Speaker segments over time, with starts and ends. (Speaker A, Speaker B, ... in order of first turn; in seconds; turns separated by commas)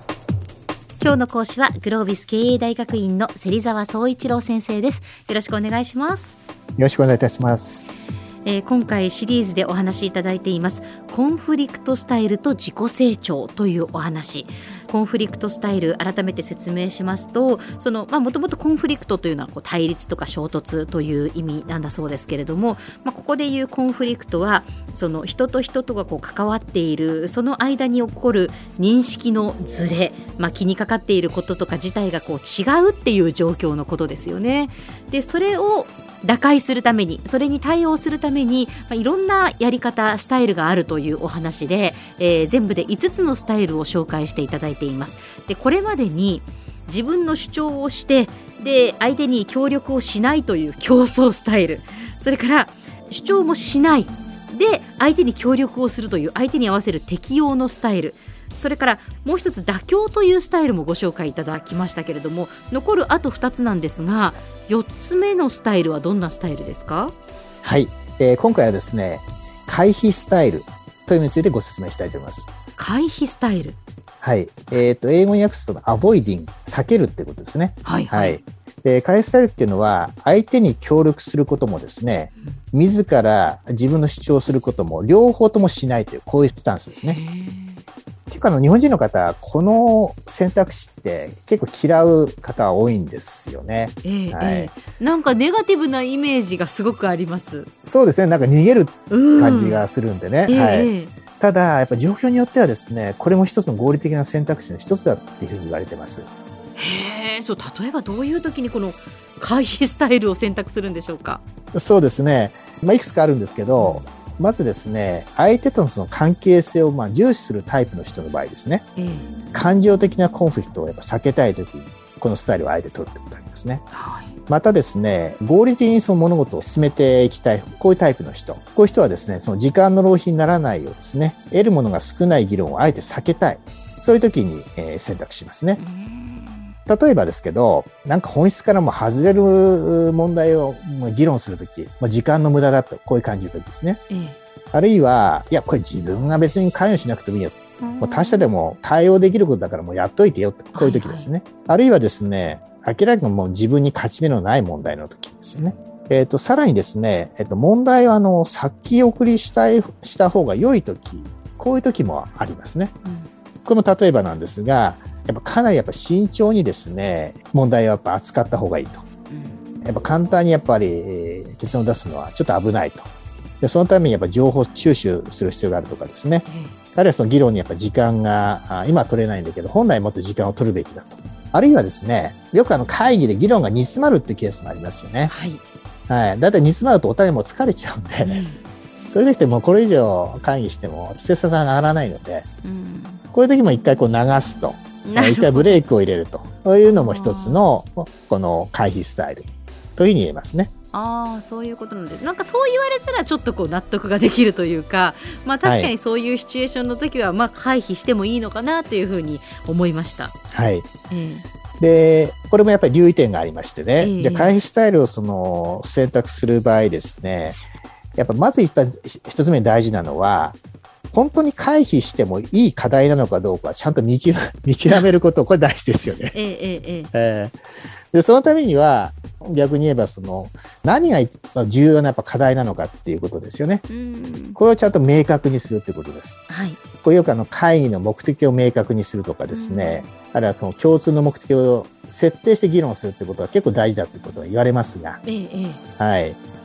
Speaker A: 1.0-6.3, Speaker B: 6.8-7.9, Speaker A: 8.4-67.1, Speaker B: 67.6-72.5, Speaker A: 72.8-73.8, Speaker B: 74.2-87.2, Speaker A: 77.8-78.4, Speaker A: 86.9-87.8, Speaker B: 88.3-94.7, Speaker A: 94.0-97.7, Speaker B: 97.8-106.3, Speaker A: 99.1-99.9, Speaker A: 100.5-101.1, Speaker A: 106.8-111.4, Speaker B: 111.7-118.8, Speaker A: 113.8-114.0, Speaker A: 119.0-119.3, Speaker B: 119.5-123.8, Speaker A: 123.9-124.3, Speaker B: 124.5-135.8, Speaker A: 135.8-136.7, Speaker B: 136.9-144.0, Speaker A: 144.1-144.4, Speaker B: 144.7-162.9, Speaker A: 147.8-148.5, Speaker A: 150.7-151.3, Speaker A: 163.0-163.3, Speaker B: 163.6-169.1, Speaker A: 169.3-169.6, Speaker B: 169.8-173.1, Speaker B: 173.6-185.3, Speaker A: 176.5-176.7, Speaker A: 185.3-185.6, Speaker B: 186.1-188.4, Speaker A: 188.2-188.6, Speaker B: 189.1-192.5, Speaker A: 192.6-193.2, Speaker B: 193.3-200.7, Speaker A: 195.0-195.8, Speaker A: 196.9-197.6, Speaker A: 200.9-210.3, Speaker B: 205.6-205.9, Speaker B: 210.5-210.9, Speaker A: 211.1-211.4, Speaker B: 211.8-217.6, Speaker A: 214.0-214.6, Speaker B: 218.2-220.6, Speaker B: 221.1-226.3, Speaker A: 226.3-227.1, Speaker B: 227.1-227.6, Speaker B: 228.1-233.8, Speaker A: 233.9-234.6, Speaker B: 234.6-236.4, Speaker A: 236.5-236.8, Speaker B: 237.0-245.2, Speaker A: 239.5-240.1, Speaker A: 245.2-245.8, Speaker B: 246.0-246.4